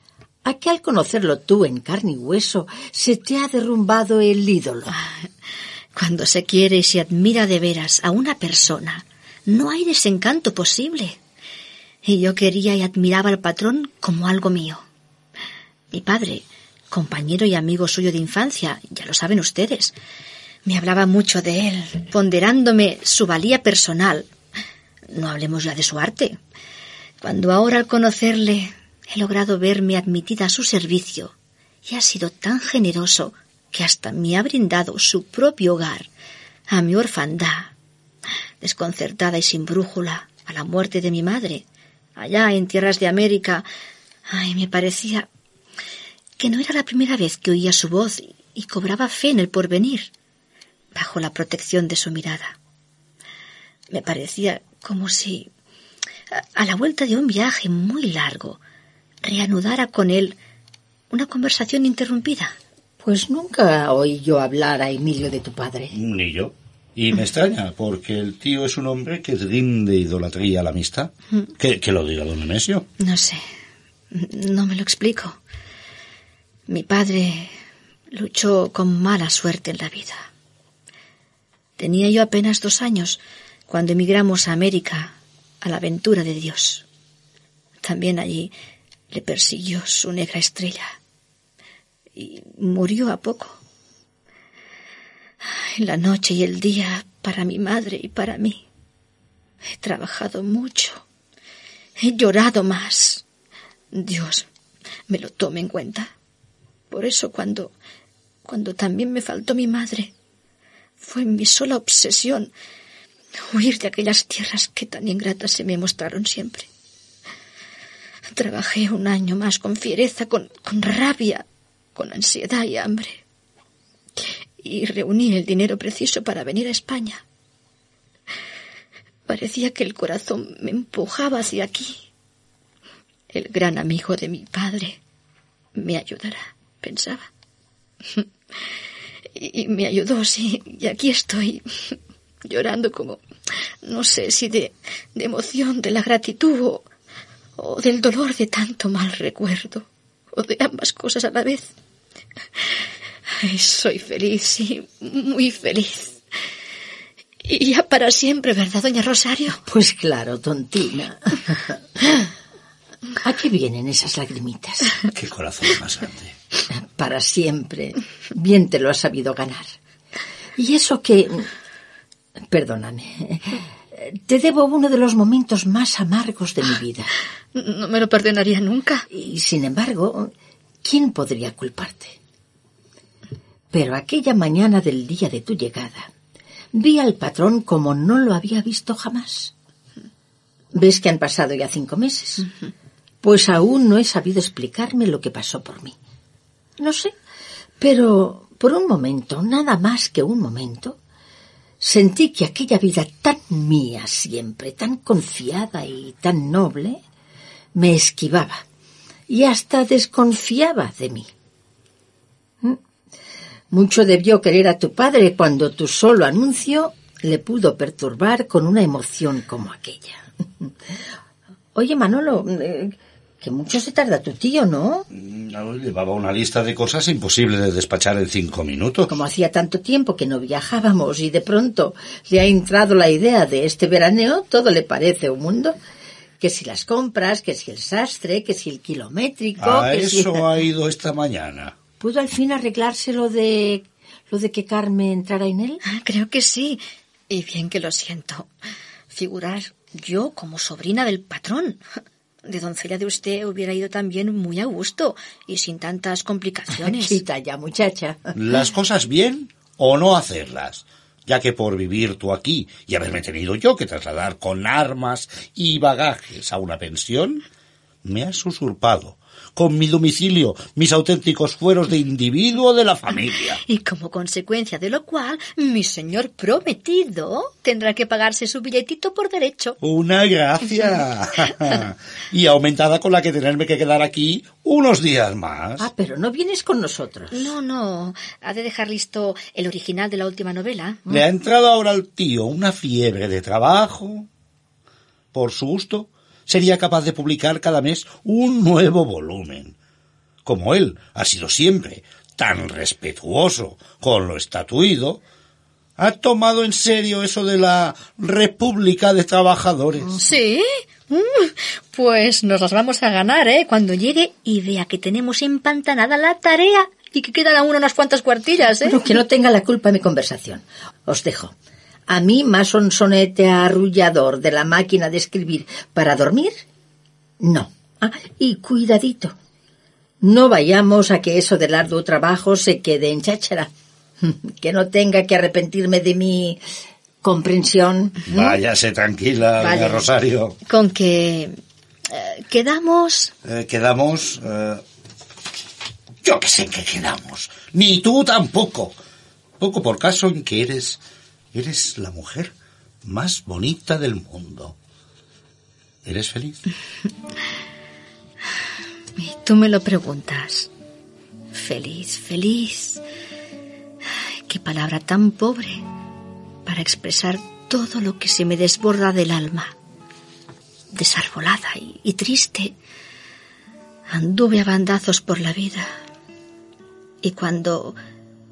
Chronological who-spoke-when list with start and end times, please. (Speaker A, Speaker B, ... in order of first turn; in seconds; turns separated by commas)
Speaker A: 0.4-4.9, Speaker B: 4.9-5.3, Speaker B: 5.9-11.2, Speaker B: 12.0-14.9, Speaker B: 15.9-19.9, Speaker B: 20.6-24.3, Speaker B: 25.1-26.4, Speaker B: 27.2-36.1, Speaker B: 36.7-37.7, Speaker B: 38.6-43.6, Speaker B: 44.3-45.3, Speaker B: 46.4-50.1, Speaker B: 50.9-52.6, Speaker B: 53.9-55.5, Speaker B: 56.3-58.6, Speaker B: 59.2-60.4, Speaker B: 61.1-62.5, Speaker A: 63.0-65.9, Speaker C: 65.9-72.8, Speaker B: 73.0-73.4, Speaker B: 74.1-75.4, Speaker B: 76.7-77.5, Speaker B: 78.1-80.3, Speaker B: 81.8-86.8, Speaker B: 87.8-88.5, Speaker B: 89.1-91.0, Speaker B: 92.2-93.6, Speaker B: 95.4-98.6, Speaker B: 99.7-101.0, Speaker B: 102.0-103.2, Speaker B: 103.9-104.5, Speaker B: 105.1-106.1, Speaker B: 106.9-107.7, Speaker B: 108.4-110.1, Speaker B: 111.0-112.5, Speaker B: 113.3-116.7, Speaker B: 118.3-123.2, Speaker B: 124.2-127.2, Speaker B: 129.3-132.0, Speaker B: 133.3-135.0, Speaker B: 135.8-137.3, Speaker B: 138.1-138.7, Speaker B: 139.3-143.2, Speaker B: 143.8-146.9, Speaker B: 147.6-151.7, Speaker B: 153.4-156.2, Speaker B: 157.4-159.6, Speaker A: 159.7-162.3, Speaker A: 163.2-164.9, Speaker C: 165.1-166.3, Speaker A: 166.9-169.7, Speaker A: 170.6-171.5, Speaker A: 172.5-177.1, Speaker B: 177.5-179.1, Speaker A: 179.1-180.3, Speaker A: 180.8-182.2, Speaker A: 183.7-186.1, Speaker A: 186.7-189.5, Speaker A: 190.8-192.5, Speaker A: 193.2-195.9, Speaker A: 196.8-197.1, Speaker A: 197.8-201.0, Speaker A: 201.8-207.0, Speaker A: 207.8-208.6, Speaker A: 209.3-211.3, Speaker A: 213.7-220.7, Speaker A: 221.7-225.1, Speaker C: 225.1-229.1, Speaker A: 229.1-235.8, Speaker A: 236.4-240.5, Speaker C: 239.6-241.7, Speaker A: 242.0-245.8, Speaker B: 245.8-248.5, Speaker B: 249.1-251.8, Speaker B: 252.4-257.2, Speaker A: 256.7-258.3, Speaker C: 258.3-267.4, Speaker C: 268.0-273.6, Speaker B: 273.6-279.8, Speaker C: 279.8-285.9, Speaker A: 285.8-287.5, Speaker B: 287.3-291.0, Speaker C: 291.1-294.3, Speaker C: 295.3-299.7, Speaker C: 300.4-305.2, Speaker C: 306.0-310.1, Speaker A: 310.0-310.4, Speaker B: 310.2-319.0, Speaker A: 318.8-321.5, Speaker A: 322.1-326.5, Speaker A: 327.4-329.3, Speaker A: 330.2-333.7, Speaker A: 334.2-336.6, Speaker A: 337.2-338.2, Speaker C: 338.3-340.5, Speaker B: 340.6-341.5, Speaker B: 342.1-343.3, Speaker C: 343.4-344.8, Speaker C: 346.2-348.9, Speaker C: 349.6-351.0, Speaker C: 351.5-352.5, Speaker C: 353.0-354.7, Speaker C: 356.0-356.6, Speaker B: 359.2-360.7, Speaker B: 361.5-363.0, Speaker B: 364.1-365.8, Speaker B: 366.6-369.7, Speaker B: 370.9-372.7, Speaker B: 374.1-375.9, Speaker B: 377.2-378.0